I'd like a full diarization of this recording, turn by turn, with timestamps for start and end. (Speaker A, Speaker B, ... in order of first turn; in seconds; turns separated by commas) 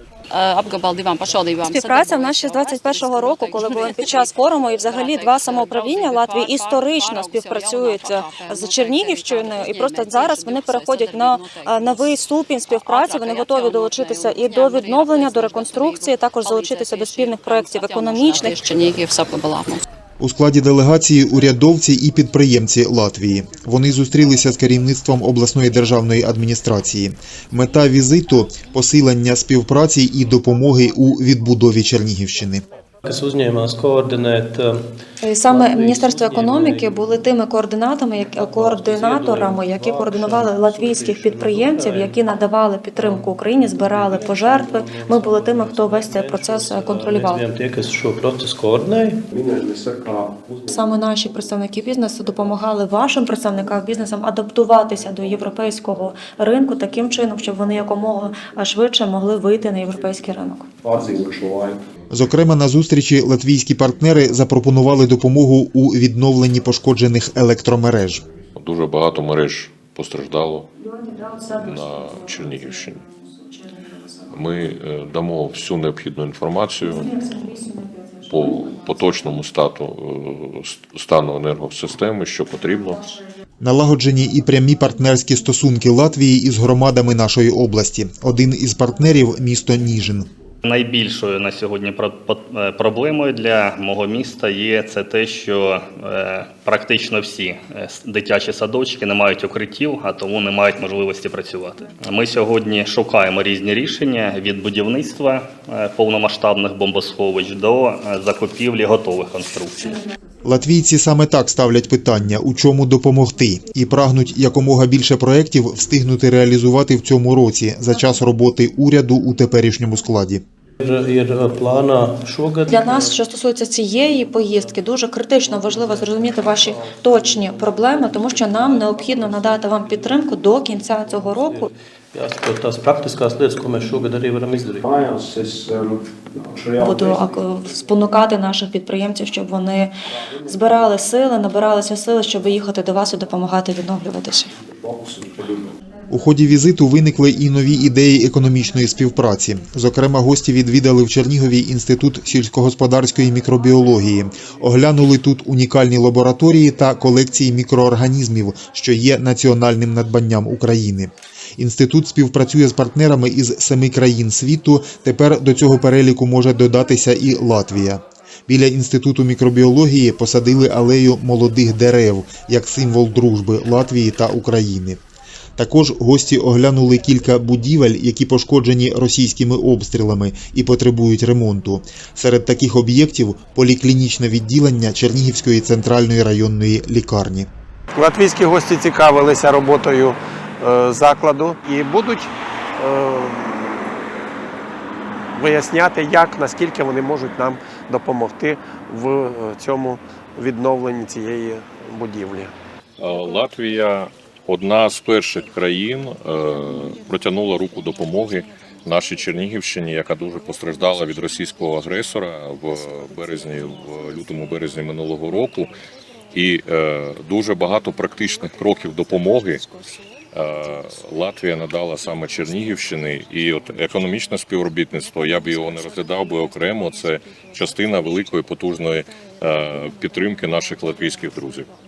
Speaker A: 0.3-4.3, Speaker B: 1.6-18.9, Speaker A: 4.8-19.8, Speaker C: 20.2-32.6, Speaker D: 33.0-34.8, Speaker B: 35.2-47.4, Speaker D: 35.4-37.2, Speaker D: 38.2-42.2, Speaker D: 43.0-49.2, Speaker E: 49.3-50.8, Speaker B: 50.7-60.7, Speaker E: 60.8-61.8, Speaker C: 62.1-68.2, Speaker F: 68.5-70.7, Speaker B: 70.8-74.3, Speaker F: 71.5-73.0, Speaker F: 74.3-77.2, Speaker B: 76.8-79.2, Speaker F: 78.2-83.0, Speaker C: 83.6-90.3, Speaker G: 90.6-110.0, Speaker C: 110.4-120.4, Speaker D: 120.8-123.2, Speaker B: 122.7-131.7, Speaker D: 124.0-124.8, Speaker D: 125.4-134.8, Speaker E: 134.8-137.3, Speaker B: 136.8-139.9, Speaker B: 140.4-144.5, Speaker E: 144.7-145.7, Speaker C: 146.1-175.0, Speaker C: 175.6-187.5, Speaker E: 187.9-193.9, Speaker E: 195.3-202.5, Speaker F: 203.0-215.7, Speaker F: 216.3-219.7, Speaker F: 220.3-231.7